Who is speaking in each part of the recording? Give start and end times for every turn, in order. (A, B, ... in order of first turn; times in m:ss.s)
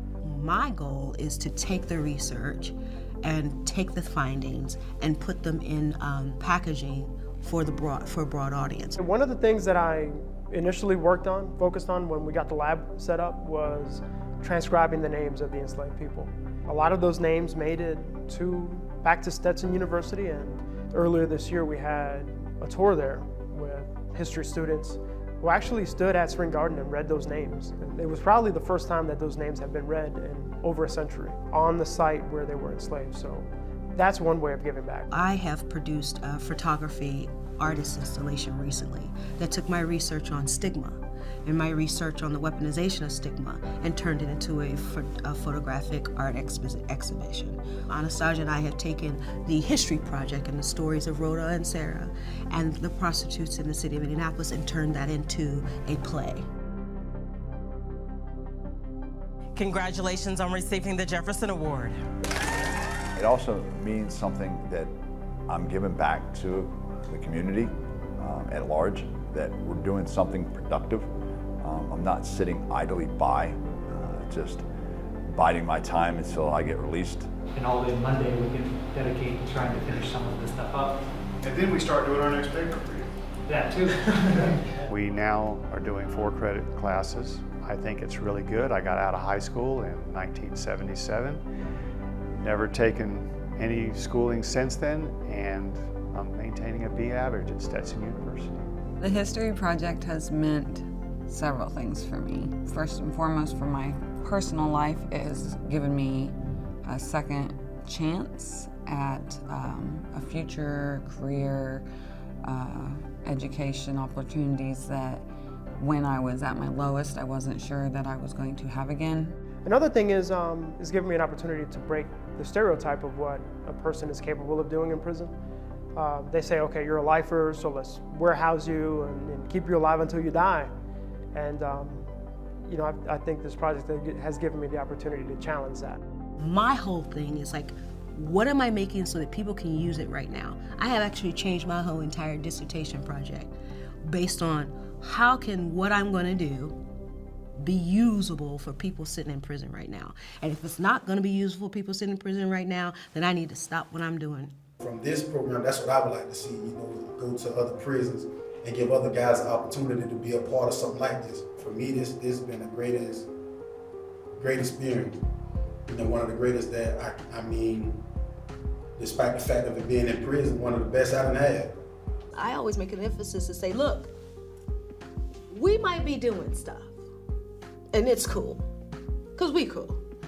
0:00.2-0:09.0 A
0:09.0-0:35.1 B
0:35.1-0:56.5 A
0:59.6-1:02.0 C
1:03.1-1:05.0 D
1:05.5-1:14.6 D
1:15.3-1:17.3 D
1:17.5-1:21.1 E
1:21.4-1:23.1 F
1:23.5-1:24.9 E
1:24.8-1:31.4 F
1:32.4-1:38.5 F
1:39.0-1:51.9 G
1:52.4-1:55.3 G
1:55.8-1:59.4 G
1:59.6-2:05.4 B
2:05.9-2:10.7 B
2:11.3-2:12.1 B
2:12.6-2:16.0 B
2:16.4-2:23.5 A
2:24.0-2:26.8 A
2:27.6-2:34.5 A
2:34.8-2:43.3 H
2:44.4-2:45.2 H
2:45.9-2:48.0 H
2:49.0-2:51.7 H
2:52.3-2:54.1 A
2:55.5-2:57.0 A
2:57.9-2:58.7 A
2:59.4-3:00.0 A